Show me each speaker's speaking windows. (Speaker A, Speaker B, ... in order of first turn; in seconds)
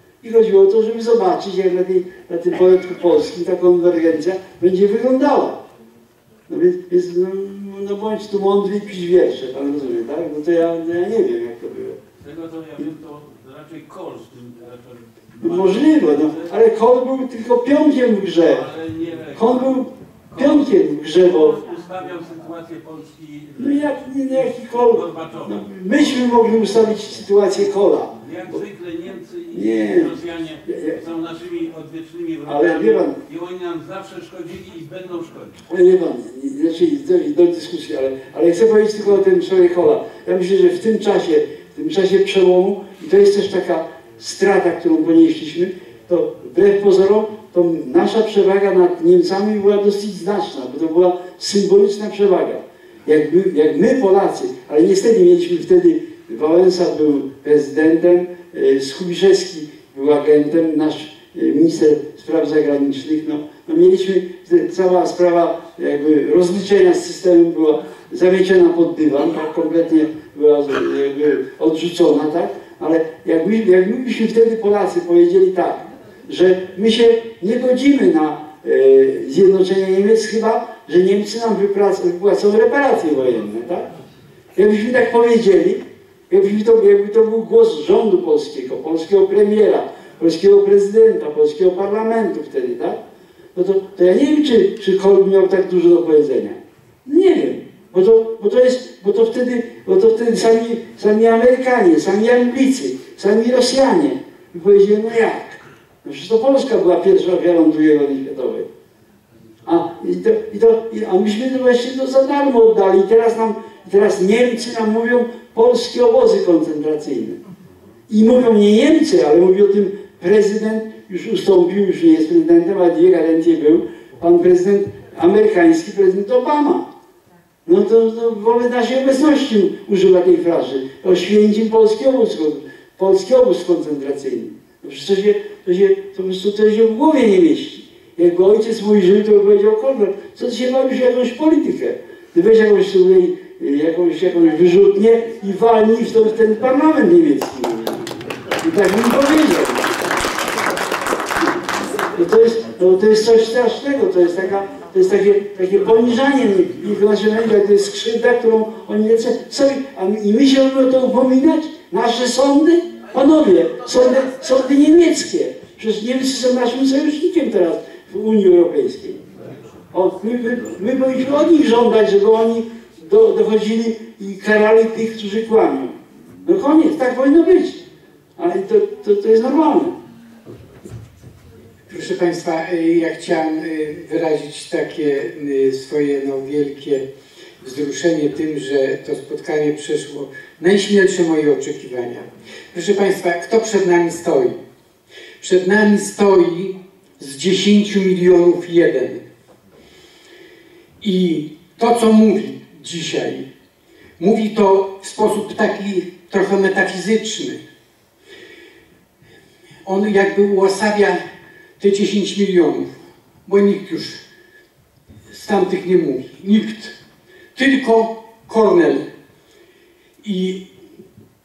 Speaker A: 0.2-5.6, 6.5-12.0, 15.4-18.6, 19.3-21.6, 23.6-28.6, 29.5-30.1, 30.7-31.0, 32.5-33.2, 35.7-83.9, 84.5-93.0, 93.5-108.7, 109.6-117.4, 118.1-126.9, 127.6-150.1, 152.1-169.2, 169.9-177.8, 178.4-180.0
Speaker B: 12.2-16.5, 18.4-20.7, 21.6-25.7, 28.2-35.6
Speaker C: 181.9-187.1, 187.6-194.6, 195.4-199.2, 201.0-203.5, 204.2-207.6, 209.8-211.2, 211.8-212.9, 213.4-214.2, 215.3-216.9, 217.5-219.1, 220.2-220.7